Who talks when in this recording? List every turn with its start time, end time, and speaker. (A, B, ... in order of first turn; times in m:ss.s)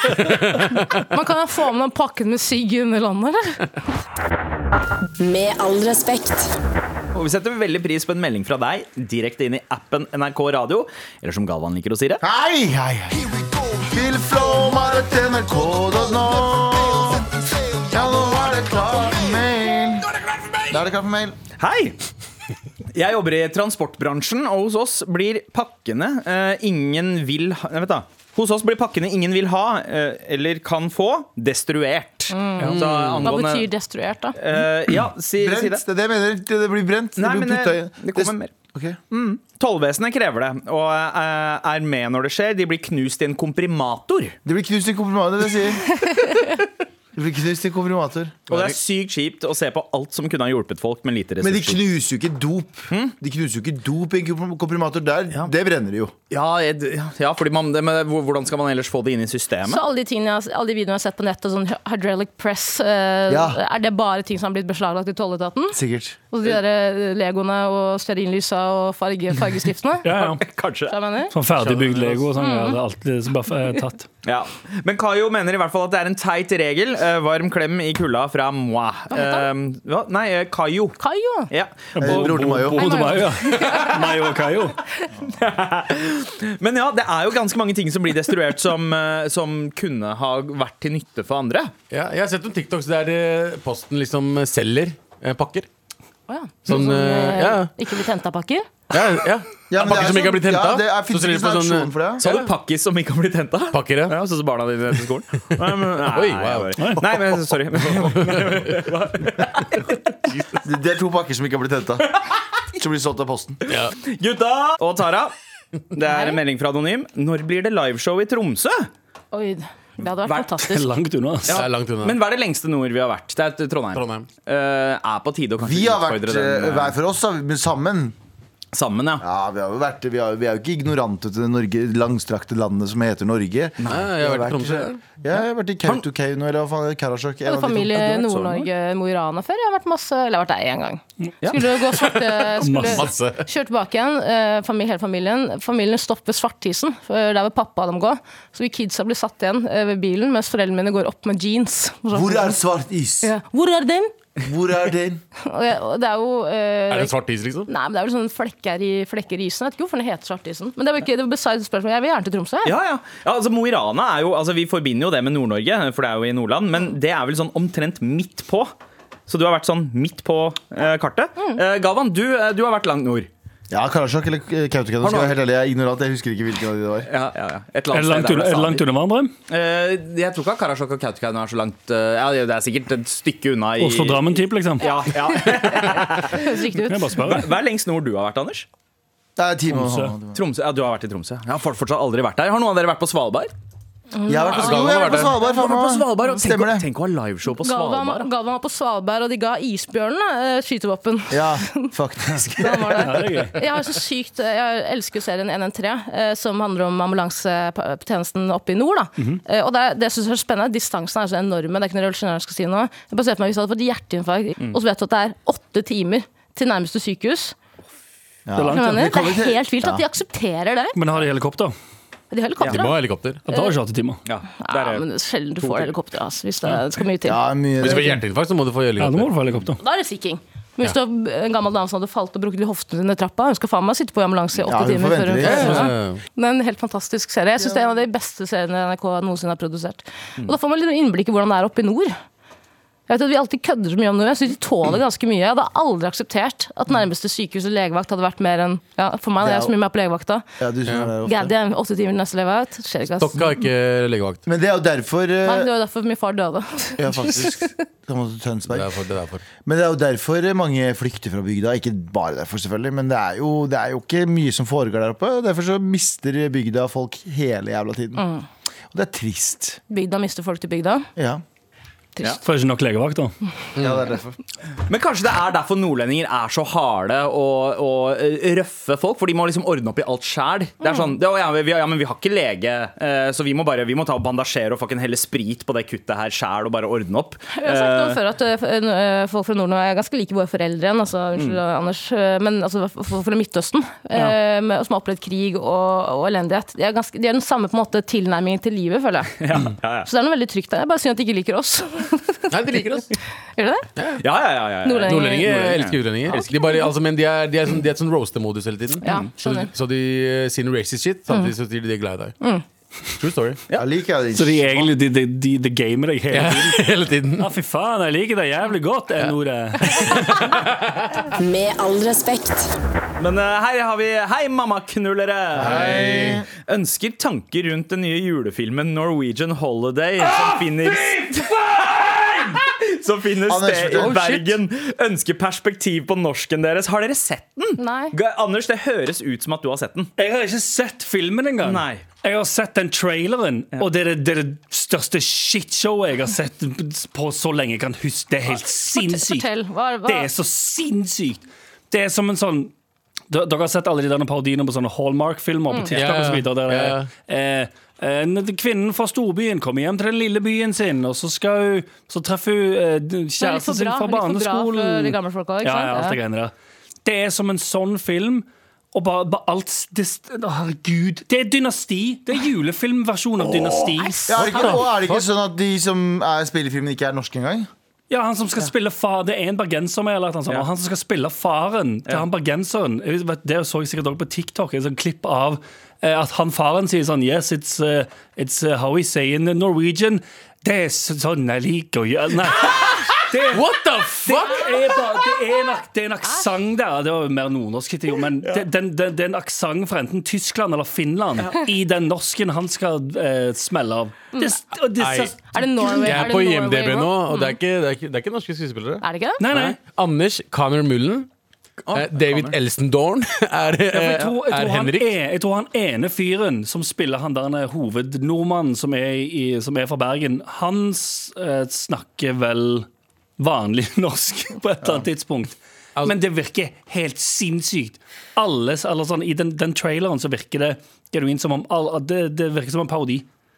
0:00.2-0:00.7 A
0:00.7-0:03.6 B
0:05.2-0:06.5 C
0:07.1-0:12.2 D
0:12.2-0:20.1 E
0:20.6-0:21.4 E
0:21.6-0:22.0 D
0:22.9-0:33.7 D
0:32.3-0:34.4 B
0:32.6-0:33.3 A
0:34.4-0:35.8 D
0:35.4-0:39.2 E
0:37.2-0:38.5 D
0:39.2-0:44.4 D
0:44.4-0:46.2 E
0:47.1-0:48.7 E
0:48.5-0:51.8 D
0:51.4-0:56.1 E
0:56.3-0:59.8 D
0:59.7-1:05.8 B
1:03.3-1:03.6 E
1:05.7-1:06.2 E
1:06.3-1:10.1 B
1:10.0-1:10.4 F
1:10.1-1:11.0 D
1:10.9-1:11.3 B
1:11.3-1:14.1 F
1:11.5-1:12.3 A
1:12.4-1:12.8 B
1:14.2-1:21.0 D
1:19.1-1:19.5 B
1:21.0-1:21.5 B
1:21.5-1:22.3 D
1:21.9-1:24.8 F
1:22.0-1:23.1 E
1:22.7-1:24.0 B
1:25.3-1:31.7 D
1:31.9-1:35.7 A
1:36.3-1:38.7 B
1:36.6-1:37.7 A
1:38.9-1:42.5 A
1:39.7-1:42.2 E
1:42.2-1:50.1 D
1:43.7-1:44.2 A
1:45.8-1:48.8 A
1:50.2-1:50.6 A
1:50.6-1:52.1 E
1:52.7-1:53.6 E
1:53.7-1:53.9 A
1:53.7-1:55.3 D
1:55.9-1:58.9 D
1:56.0-1:56.4 B
1:59.3-2:00.8 B
2:00.2-2:00.6 D
2:00.6-2:01.6 F
2:01.5-2:06.9 D
2:01.5-2:02.2 A
2:03.9-2:04.2 A
2:05.6-2:08.1 E
2:08.7-2:09.2 D
2:09.2-2:18.2 E
2:13.8-2:14.0 D
2:13.9-2:15.0 A
2:17.4-2:32.6 B
2:18.2-2:18.6 D
2:21.9-2:23.4 A
2:22.6-2:23.1 F
2:32.1-2:33.3 E
2:33.2-2:34.1 B
2:34.4-2:35.2 E
2:35.4-2:37.2 B
2:36.9-2:37.7 A
2:37.7-2:42.7 B
2:42.6-2:48.7 D
2:49.3-2:53.3 D
2:53.7-2:57.1 E
2:55.0-2:55.4 D
2:57.1-2:58.8 D
2:57.9-2:59.3 F
2:59.5-3:06.5 D
3:03.8-3:04.9 F
3:04.8-3:07.1 B
3:06.8-3:07.5 F
3:07.2-3:08.7 D
3:09.4-3:10.4 E
3:09.7-3:10.1 F
3:10.3-3:13.5 D
3:14.1-3:16.5 B
3:14.3-3:16.9 E
3:14.5-3:15.3 A
3:15.4-3:18.3 D
3:17.5-3:37.5 B
3:21.3-3:23.3 E
3:23.0-3:23.6 F
3:38.5-3:40.0 E
3:38.5-3:39.2 F
3:38.7-3:41.0 B
3:40.9-3:41.7 F
3:42.3-3:43.0 B
3:42.6-3:43.4 A
3:43.4-3:44.2 F
3:44.2-3:45.0 D
3:44.6-3:47.4 B
3:45.6-3:45.9 D
3:47.2-3:48.2 E
3:47.8-3:49.6 A
3:49.0-3:49.8 F
3:49.8-4:02.1 B
3:54.6-3:55.9 E
3:55.4-3:56.2 A
4:03.1-4:10.4 B
4:09.4-4:09.7 E
4:10.6-4:11.5 E
4:11.2-4:13.4 B
4:13.1-4:14.4 A
4:14.4-4:15.7 E
4:15.4-4:17.7 B
4:17.0-4:18.9 E
4:18.7-4:19.4 A
4:19.6-4:28.2 E
4:28.2-4:28.4 B
4:28.9-4:29.8 E
4:29.9-4:31.1 B
4:31.2-4:31.4 E
4:32.4-4:33.3 F
4:33.8-4:34.1 A
4:33.8-4:34.4 E
4:34.9-4:48.2 D
4:40.8-4:41.1 B
4:47.5-5:03.0 B
4:59.4-5:00.1 D
5:02.5-5:03.1 A
5:03.6-5:03.9 B
5:04.0-5:04.2 A
5:04.2-5:06.5 D
5:04.8-5:05.7 B
5:05.0-5:12.3 A
5:09.0-5:09.7 B
5:13.2-5:13.6 A
5:13.7-5:14.9 E
5:14.3-5:20.0 F
5:16.3-5:17.5 A
5:19.8-5:21.2 A
5:21.4-5:22.7 C
5:23.2-5:40.1 D
5:25.6-5:26.5 E
5:25.6-5:26.4 A
5:30.3-5:32.6 F
5:33.5-5:34.2 E
5:37.8-5:38.1 B
5:40.2-5:49.5 F
5:41.6-5:42.0 D
5:48.9-5:50.3 B
5:50.0-5:52.7 F
5:53.3-6:06.5 F
5:55.9-5:57.1 A
6:03.4-6:06.2 B
6:07.0-6:14.2 F
6:14.0-6:14.8 B
6:14.3-6:17.7 E
6:14.3-6:15.2 A
6:18.1-6:46.4 F
6:33.5-6:34.7 A
6:44.9-6:49.0 A
6:45.5-6:47.6 B
6:49.0-6:49.4 B
6:49.4-6:49.8 F
6:49.8-6:51.3 A
6:51.8-6:52.6 D
6:51.9-6:55.1 A
6:53.9-7:02.9 F
7:03.4-7:13.2 F